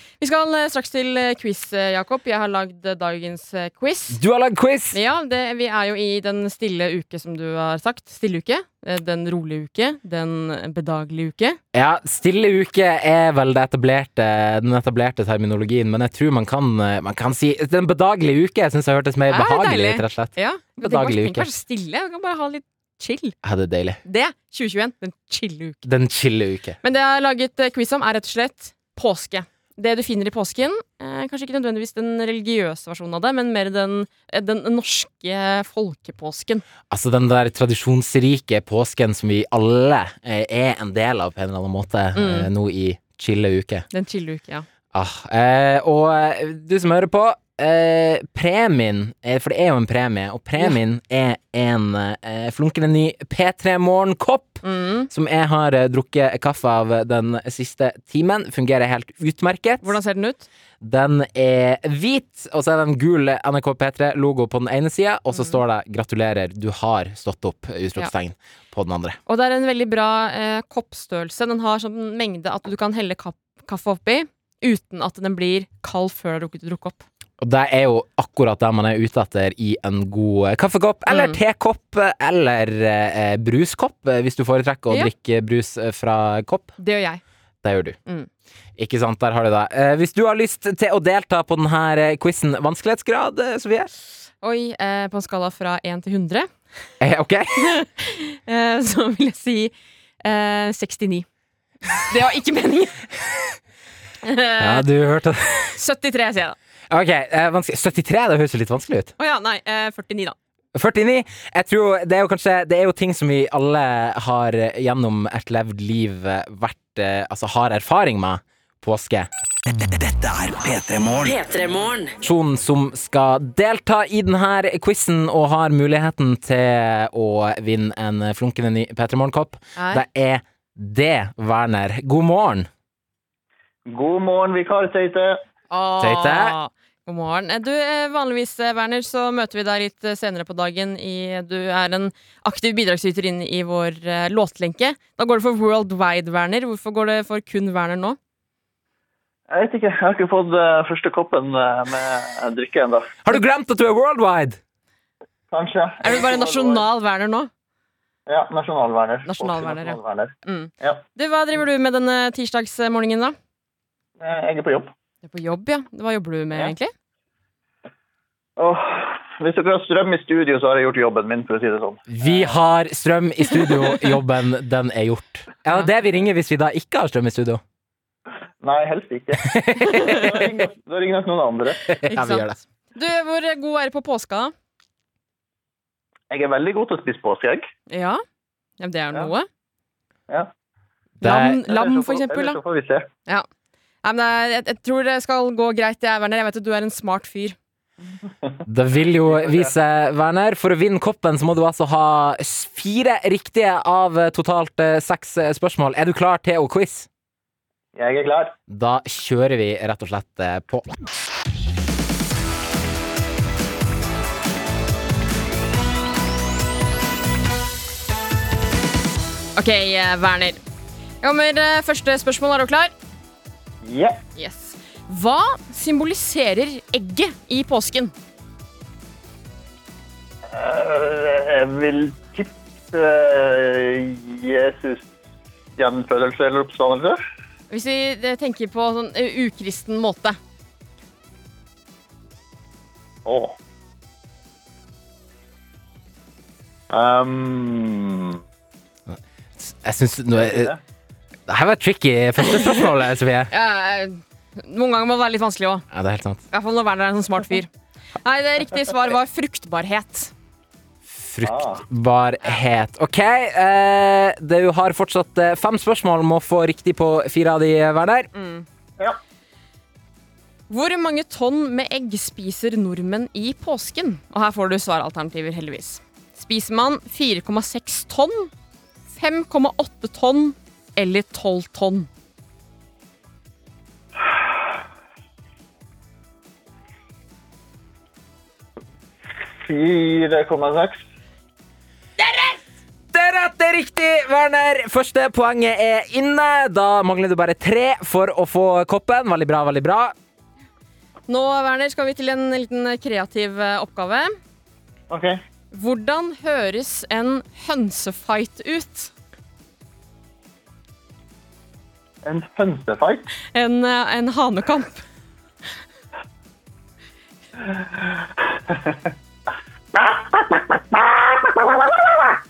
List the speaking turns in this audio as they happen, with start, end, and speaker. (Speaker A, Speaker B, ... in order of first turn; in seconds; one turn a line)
Speaker A: 0.2-4.2
Speaker B: 4.1-5.0
Speaker A: 4.9-11.6
Speaker B: 11.7-21.5
Speaker A: 19.3-23.4
Speaker B: 23.4-24.0
Speaker A: 24.0-25.8
Speaker B: 25.8-26.8
Speaker A: 26.8-36.6
Speaker B: 36.9-43.9
Speaker A: 42.1-42.5
Speaker A: 43.9-44.6
Speaker B: 44.9-60.0
Speaker A: 54.6-55.1
Speaker A: 59.8-60.5
Speaker B: 60.8-69.2
Speaker A: 65.3-65.6
Speaker A: 69.3-77.0
Speaker B: 77.4-86.8
Speaker A: 81.1-81.4
Speaker A: 86.8-87.2
Speaker B: 87.6-88.0
Speaker B: 88.8-93.9
Speaker A: 94.4-96.5
Speaker B: 97.0-97.8
Speaker A: 97.6-101.2
Speaker A: 101.9-103.1
Speaker A: 104.2-104.8
Speaker B: 104.6-105.7
Speaker A: 105.7-106.5
Speaker B: 106.9-109.1
Speaker A: 109.2-110.3
Speaker B: 110.7-119.3
Speaker C: 119.7-122.0
Speaker B: 122.2-132.7
Speaker A: 129.8-130.0
Speaker D: 133.9-135.4
Speaker A: 135.7-148.2
Speaker B: 136.0-136.6
Speaker D: 149.5-153.1
Speaker B: 153.2-154.6
Speaker D: 155.5-156.8
Speaker A: 156.0-157.5
Speaker D: 158.3-161.0
Speaker A: 159.2-163.3
Speaker D: 164.2-164.9
Speaker A: 165.2-166.9
Speaker D: 168.6-172.5
Speaker B: 172.1-177.6
Speaker D: 178.6-179.5
Speaker B: 179.5-180.3
Speaker A: 179.9-180.2
Speaker D: 180.0-181.8
Speaker B: 181.9-182.6
Speaker A: 182.1-184.5
Speaker D: 186.3-187.6
Speaker A: 187.9-188.2
Speaker A: 188.8-189.5
Speaker B: 191.2-191.6
Speaker A: 191.2-192.6
Speaker D: 191.7-193.1
Speaker A: 194.0-197.6
Speaker B: 198.7-207.1
Speaker D: 199.3-199.7
Speaker D: 207.9-208.5
Speaker B: 208.7-210.9
Speaker A: 219.6-220.6
Speaker A: 221.2-222.9
Speaker D: 223.8-224.2
Speaker A: 224.3-228.1
Speaker D: 230.5-235.1
Speaker D: 235.8-237.2
Speaker A: 237.7-240.4
Speaker D: 243.2-243.5
Speaker D: 246.9-248.4
Speaker B: 249.1-250.7
Speaker D: 250.3-250.8
Speaker B: 251.5-253.5
Speaker A: 253.5-255.8
Speaker B: 255.9-256.4
Speaker A: 256.5-257.7
Speaker A: 258.2-260.3
Speaker B: 261.0-268.3
Speaker D: 261.4-261.8
Speaker A: 268.3-268.6
Speaker A: 270.7-278.5
Speaker A: 279.1-282.1
Speaker D: 289.6-291.0
Speaker B: 292.2-292.6
Speaker B: 293.1-300.1
Speaker A: 301.3-304.3
Speaker D: 305.1-305.4
Speaker A: 305.7-309.1
Speaker D: 312.2-313.3
Speaker A: 313.5-315.0
Speaker D: 318.7-319.0
Speaker D: 320.0-321.8